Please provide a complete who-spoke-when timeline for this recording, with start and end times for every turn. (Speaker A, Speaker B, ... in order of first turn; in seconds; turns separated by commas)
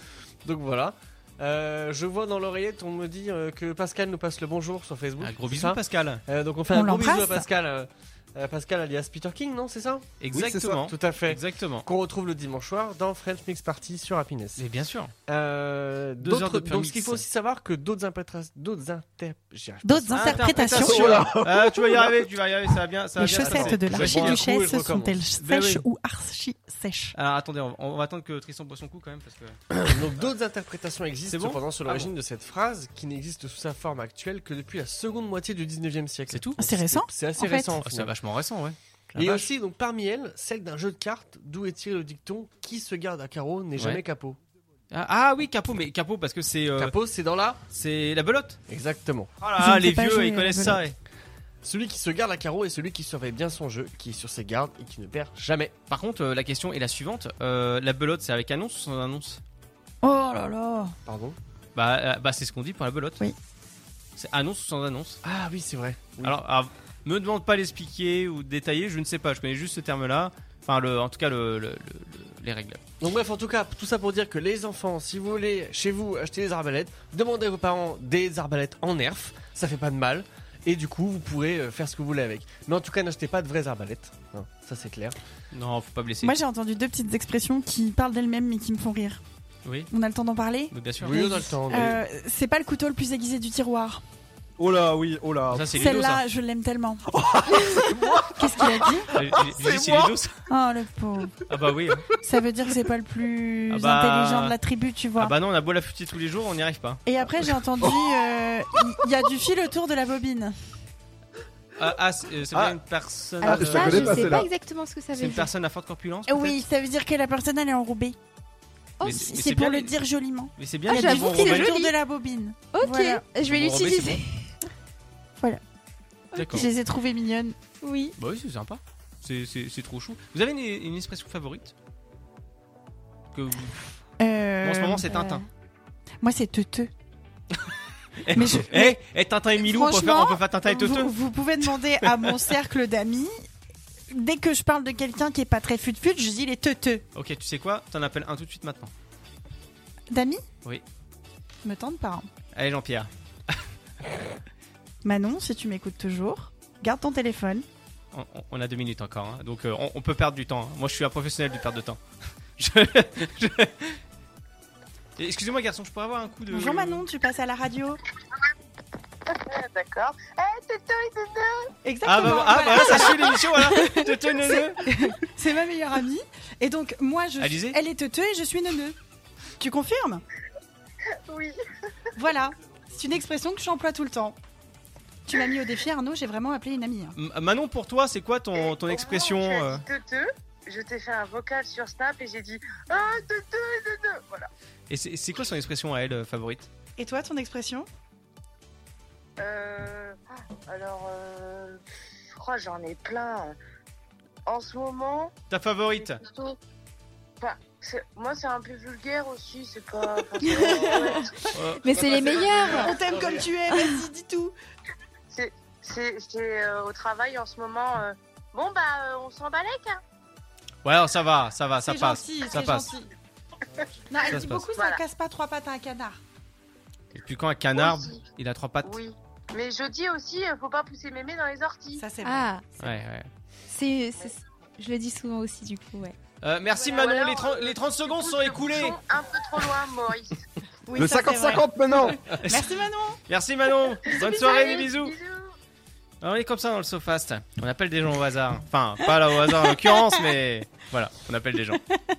Speaker A: 0.4-10.1, Speaker B: 5.2-6.2, Speaker C: 6.7-7.5, Speaker B: 10.2-11.9, Speaker D: 10.3-10.8, Speaker A: 10.7-14.6, Speaker B: 14.6-15.1, Speaker A: 15.3-20.7, Speaker B: 16.2-17.2, Speaker C: 19.8-21.3, Speaker B: 20.1-24.4, Speaker D: 20.7-22.1, Speaker C: 23.2-27.1, Speaker A: 23.3-25.2, Speaker B: 25.4-25.8, Speaker B: 27.1-29.8, Speaker A: 29.8-38.1, Speaker B: 31.3-32.1, Speaker B: 36.3-36.6, Speaker C: 36.6-37.7, Speaker B: 37.8-39.5, Speaker A: 39.1-44.4, Speaker B: 44.9-46.9, Speaker A: 46.8-47.6, Speaker B: 47.7-48.6, Speaker A: 48.7-49.3, Speaker B: 49.4-51.0, Speaker C: 49.6-50.8, Speaker A: 51.6-55.7, Speaker B: 55.9-59.4, Speaker C: 60.0-60.9, Speaker A: 61.0-61.4, Speaker B: 61.7-63.2, Speaker B: 64.2-65.2, Speaker A: 65.2-66.3, Speaker B: 66.2-72.8, Speaker A: 73.0-85.2, Speaker B: 85.5-86.3, Speaker C: 86.2-89.2, Speaker B: 89.6-89.9, Speaker C: 89.9-94.0, Speaker B: 90.7-91.2, Speaker A: 91.0-92.0, Speaker D: 94.6-95.8, Speaker B: 95.5-96.2, Speaker C: 95.8-97.0, Speaker D: 97.1-100.2, Speaker C: 97.6-99.1, Speaker B: 99.1-100.3, Speaker C: 100.5-101.3, Speaker B: 101.5-102.0, Speaker C: 102.2-105.3, Speaker B: 103.7-104.5, Speaker B: 105.2-107.0, Speaker C: 107.0-110.6, Speaker B: 111.8-114.4, Speaker D: 112.5-112.8, Speaker E: 113.4-115.5, Speaker D: 113.4-114.5, Speaker B: 115.1-116.6, Speaker C: 116.3-118.2, Speaker E: 119.0-119.3, Speaker B: 119.0-119.9, Speaker C: 119.1-123.2, Speaker B: 120.6-121.8, Speaker E: 120.9-121.9, Speaker E: 122.7-124.5, Speaker B: 123.5-124.2, Speaker E: 126.3-126.7, Speaker B: 126.3-126.7, Speaker C: 126.5-127.6, Speaker E: 127.8-128.1, Speaker B: 128.2-131.7, Speaker B: 133.3-133.8, Speaker C: 134.2-135.1, Speaker B: 134.6-135.4, Speaker E: 135.1-135.4, Speaker C: 136.2-136.9, Speaker B: 138.2-142.5, Speaker C: 138.3-139.0, Speaker C: 139.6-143.4, Speaker C: 144.1-147.0, Speaker B: 147.1-148.9, Speaker C: 150.1-150.4, Speaker C: 151.6-152.2, Speaker B: 152.5-153.6, Speaker C: 155.0-157.6, Speaker B: 158.1-162.0, Speaker B: 162.6-164.0, Speaker B: 165.2-167.0, Speaker C: 166.5-168.0, Speaker F: 169.3-171.7, Speaker C: 171.8-178.9, Speaker B: 172.0-174.9, Speaker B: 177.4-177.8, Speaker C: 179.6-180.2, Speaker F: 181.2-181.6, Speaker C: 182.2-184.3, Speaker C: 185.3-187.1, Speaker B: 187.2-189.8, Speaker F: 188.6-194.5, Speaker B: 194.9-196.7, Speaker C: 197.0-197.9, Speaker F: 199.4-201.8, Speaker F: 202.3-203.5, Speaker F: 204.4-205.3, Speaker B: 205.5-206.2, Speaker F: 206.0-206.6, Speaker F: 207.4-211.5, Speaker E: 210.4-211.2, Speaker B: 211.5-212.2, Speaker E: 211.8-213.0, Speaker C: 212.5-214.5, Speaker E: 213.7-214.0, Speaker F: 215.3-220.0, Speaker B: 220.8-222.9, Speaker C: 221.9-223.1, Speaker C: 224.1-226.2, Speaker B: 224.3-224.7, Speaker F: 224.7-225.0, Speaker B: 227.1-229.0, Speaker F: 227.7-228.2, Speaker F: 228.8-232.0, Speaker C: 231.9-232.5, Speaker E: 232.2-232.7, Speaker B: 232.8-233.3, Speaker E: 233.7-236.2, Speaker B: 236.4-239.0, Speaker F: 236.7-240.4, Speaker C: 240.9-241.7, Speaker D: 240.9-242.2, Speaker C: 242.2-243.2, Speaker B: 242.2-242.7, Speaker B: 243.3-245.2, Speaker F: 244.1-245.5, Speaker B: 246.2-251.8, Speaker C: 249.6-250.2